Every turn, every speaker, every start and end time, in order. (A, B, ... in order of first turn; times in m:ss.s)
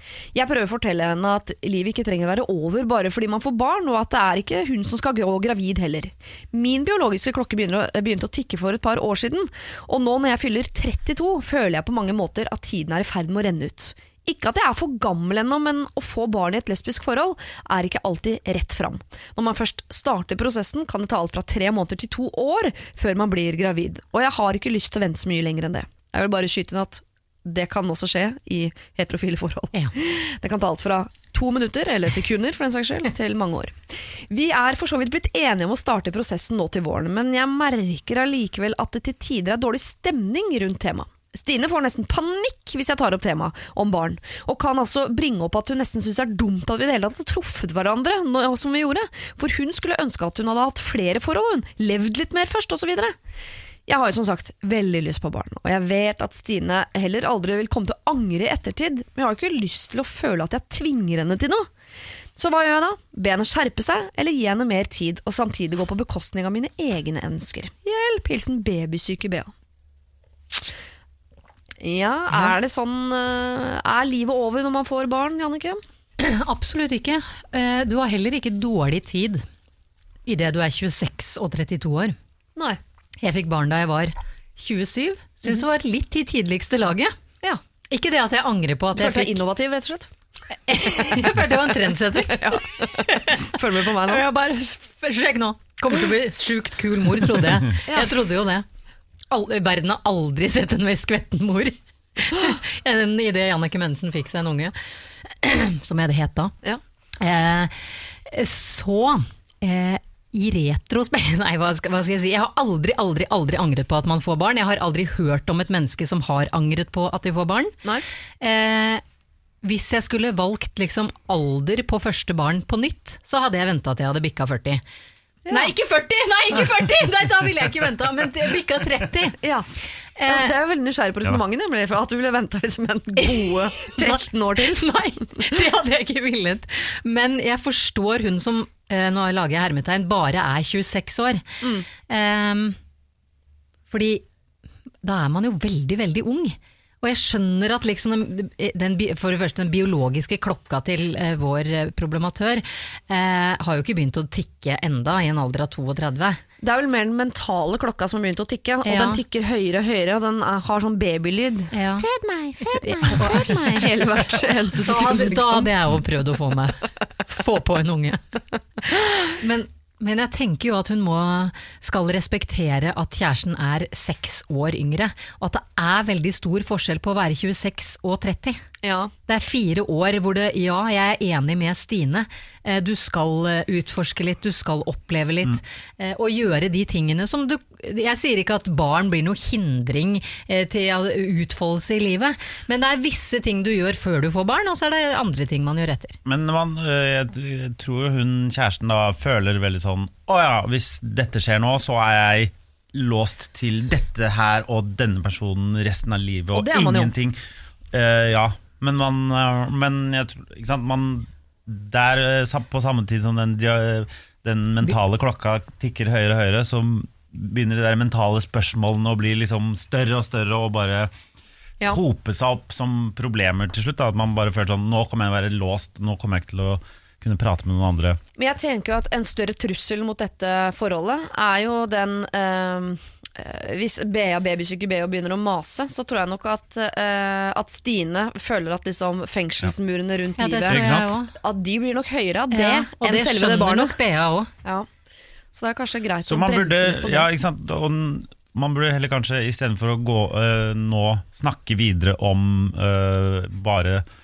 0:00.3-0:53.1 A
0:53.9-1:01.7 A
1:02.4-1:09.5 A
1:11.8-1:15.8 A
1:16.2-1:19.4 B
1:20.3-1:22.2 B
1:23.2-1:27.2 B
1:27.9-1:29.4 B
1:29.0-1:30.1 A
1:30.7-1:38.7 B
1:30.9-1:31.3 A
1:32.3-1:34.2 A
1:37.9-1:38.1 A
1:39.3-1:46.5 B
1:47.2-1:57.7 B
1:58.4-1:59.0 B
1:59.6-2:04.8 B
2:05.4-2:05.7 A
2:05.5-2:09.4 B
2:09.4-2:09.7 A
2:10.2-2:10.5 B
2:10.3-2:15.6 A
2:13.2-2:21.4 B
2:22.0-2:22.8 B
2:23.9-2:24.2 B
2:25.0-2:36.4 B
2:36.6-2:45.7 A
2:38.8-2:39.2 B
2:41.7-2:42.1 B
2:42.6-2:48.2 B
2:49.0-2:58.6 B
2:58.8-2:59.1 A
2:59.3-3:16.2 B
3:16.2-3:27.4 C
3:26.5-3:27.1 A
3:27.9-3:41.1 C
3:41.9-3:48.2 C
3:48.4-4:04.0 A
4:00.4-4:01.3 B
4:00.7-4:01.2 C
4:02.5-4:04.5 B
4:05.5-4:07.3 A
4:06.2-4:14.0 C